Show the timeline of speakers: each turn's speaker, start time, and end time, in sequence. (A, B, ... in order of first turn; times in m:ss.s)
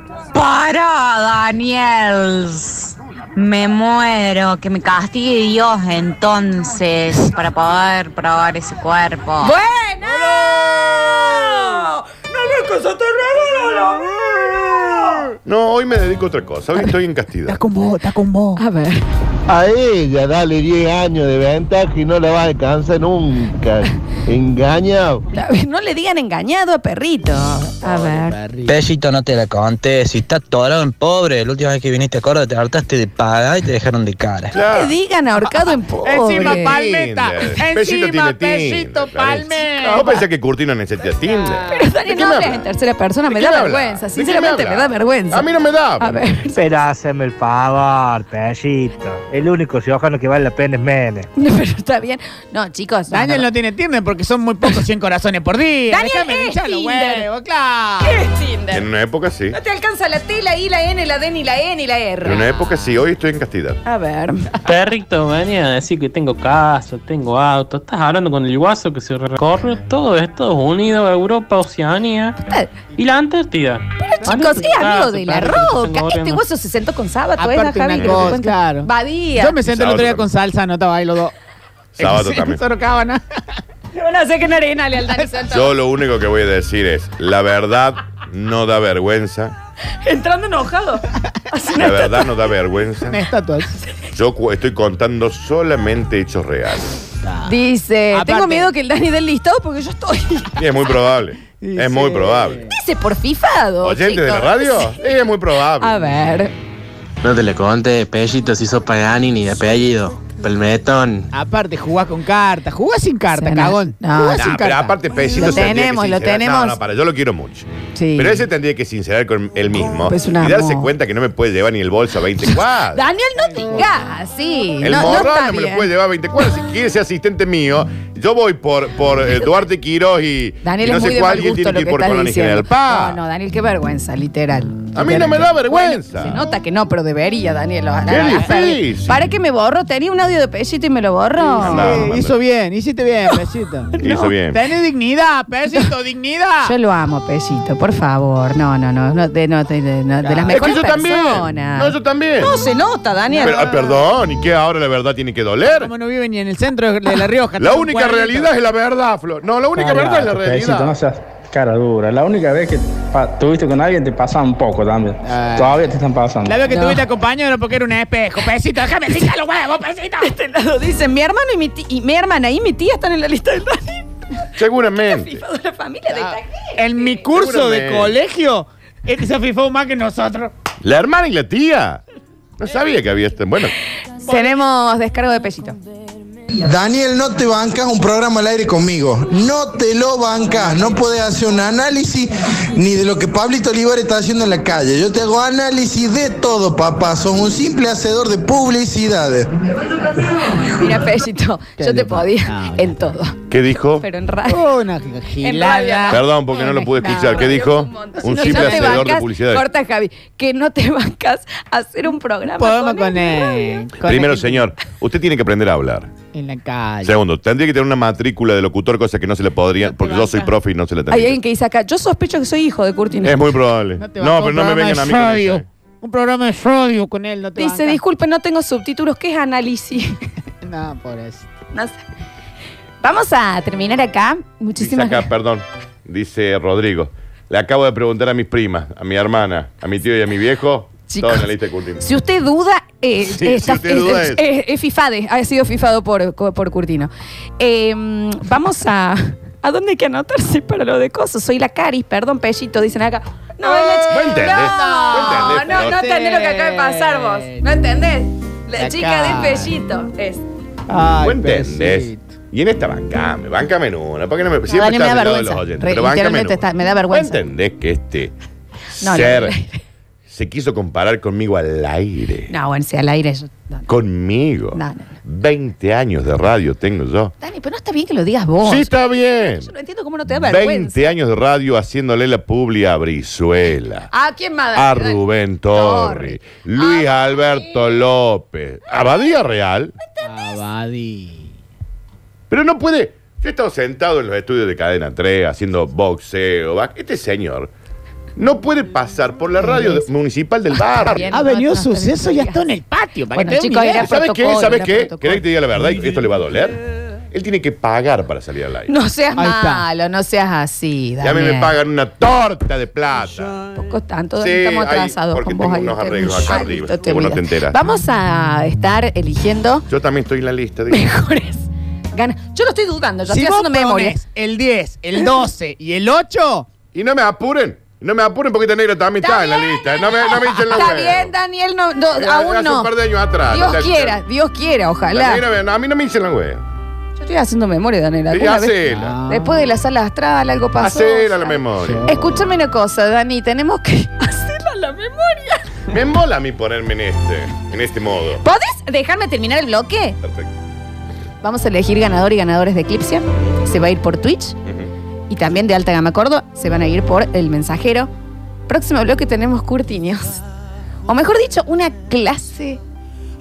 0:00.3-0:09.6 A
0:09.4-0:15.3 B
0:15.4-0:17.6 C
0:17.5-0:18.6 D
0:18.6-0:19.0 B
0:19.5-0:25.2 E
0:25.3-0:28.4 B
0:27.8-0:28.8 D
0:28.7-0:34.6 F
0:34.6-0:34.9 C
0:34.6-0:36.8 B
0:36.0-0:40.2 D
0:36.4-0:42.7 C
0:41.2-0:42.0 D
0:41.7-0:45.4 B
0:43.3-0:46.3 C
0:46.0-0:46.6 B
0:46.5-0:51.3 G
0:51.4-0:53.5 B
0:53.1-0:58.2 D
0:55.9-0:57.3 B
0:58.0-0:58.9 B
0:58.7-0:59.6 C
0:59.5-1:02.5 B
1:02.2-1:03.8 C
1:03.8-1:04.5 B
1:04.6-1:12.4 H
1:12.4-1:12.7 B
1:13.0-1:16.4 H
1:14.1-1:19.6 B
1:17.4-1:21.3 D
1:18.0-1:18.4 C
1:19.7-1:20.3 C
1:22.0-1:22.6 C
1:22.0-1:23.2 D
1:24.0-1:25.7 B
1:25.5-1:29.5 C
1:30.0-1:32.3 B
1:31.7-1:33.2 C
1:33.1-1:33.8 D
1:34.1-1:37.0 C
1:37.2-1:37.6 D
1:37.4-1:40.6 B
1:38.1-1:38.7 D
1:40.6-1:42.6 C
1:41.5-1:42.6 D
1:42.7-1:45.1 B
1:43.8-1:46.0 C
1:45.8-1:46.5 B
1:47.2-1:51.3 I
1:51.3-1:55.6 D
1:53.3-1:54.6 B
1:54.4-2:03.0 C
1:55.3-1:56.8 B
1:58.0-1:58.5 B
2:00.1-2:00.9 B
2:02.4-2:05.9 B
2:03.5-2:04.2 D
2:04.8-2:13.2 C
2:10.6-2:22.1 B
2:15.0-2:16.4 C
2:18.1-2:19.2 C
2:21.6-2:24.0 D
2:21.6-2:22.4 C
2:24.0-2:24.4 B
2:24.0-2:24.6 C
2:24.5-2:26.8 D
2:26.6-2:33.8 B
2:30.2-2:30.8 D
2:30.5-2:32.5 C
2:33.4-2:33.8 D
2:33.4-2:35.9 C
2:35.7-2:38.5 D
2:37.6-2:41.0 C
2:40.4-2:45.2 J
2:45.2-2:45.9 D
2:45.8-2:46.4 J
2:46.4-2:50.3 D
2:46.7-2:47.1 B
2:50.2-2:54.1 B
2:54.6-2:55.4 C
2:55.0-2:57.3 B
2:56.1-3:00.5 D
2:57.3-2:58.2 C
3:00.8-3:02.0 C
3:02.6-3:03.8 C
3:04.2-3:05.8 B
3:06.6-3:19.5 K
3:20.5-3:23.4 B
3:21.8-3:23.2 D
3:23.5-3:24.1 C
3:24.0-3:24.7 B
3:24.5-3:26.3 D
3:25.4-3:33.8 B
3:26.1-3:29.6 C
3:27.0-3:27.6 D
3:28.2-3:29.2 D
3:32.6-3:34.7 D
3:34.0-3:36.2 C
3:36.3-3:37.2 D
3:37.0-3:41.4 C
3:39.8-3:40.6 D
3:41.1-3:43.5 B
3:43.2-3:45.6 C
3:44.0-3:48.0 D
3:47.6-3:50.2 B
3:50.6-3:51.5 D
3:51.7-3:52.0 B
3:53.0-3:55.3 B
3:54.8-4:02.0 C
4:01.1-4:01.5 B
4:02.0-4:20.4 B
4:03.2-4:04.4 C
4:13.7-4:16.0 C
4:14.4-4:17.7 D
4:18.8-4:19.7 D
4:20.9-4:22.3 D
4:21.2-4:28.3 C
4:24.7-4:27.4 B
4:29.0-4:29.6 C
4:29.0-4:29.8 B
4:30.3-4:32.5 C
4:32.5-4:33.9 B
4:33.9-4:37.3 C
4:34.7-4:35.1 B
4:37.4-4:41.1 B
4:38.6-4:39.7 C
4:40.4-4:44.1 C
4:44.1-4:45.2 B
4:44.8-4:50.0 C
4:45.7-4:48.0 B
4:50.0-4:50.6 B
4:50.2-4:51.6 D
4:52.5-4:57.7 C
4:58.4-5:01.3 C
4:59.6-5:00.0 B
5:00.8-5:02.7 B
5:01.3-5:04.1 D
5:03.3-5:05.4 B
5:04.0-5:08.9 C
5:08.9-5:11.7 B
5:09.4-5:09.9 D
5:11.2-5:13.6 C
5:13.6-5:19.9 B
5:14.4-5:17.8 C
5:19.9-5:21.0 C
5:20.9-5:24.2 B
5:23.3-5:26.7 D
5:26.9-5:31.3 C
5:29.2-5:32.9 B
5:32.2-5:34.2 C
5:33.5-5:35.4 B
5:35.1-5:36.6 C
5:37.2-5:45.6 B
5:38.3-5:39.2 C
5:38.9-5:39.6 D
5:40.8-5:42.3 C
5:41.8-5:42.1 D
5:45.9-5:48.4 C
5:48.4-5:50.2 B
5:50.2-5:50.5 C
5:51.4-5:54.6 B
5:55.3-5:58.1 B
5:58.7-6:00.4 B
6:01.1-6:02.8 B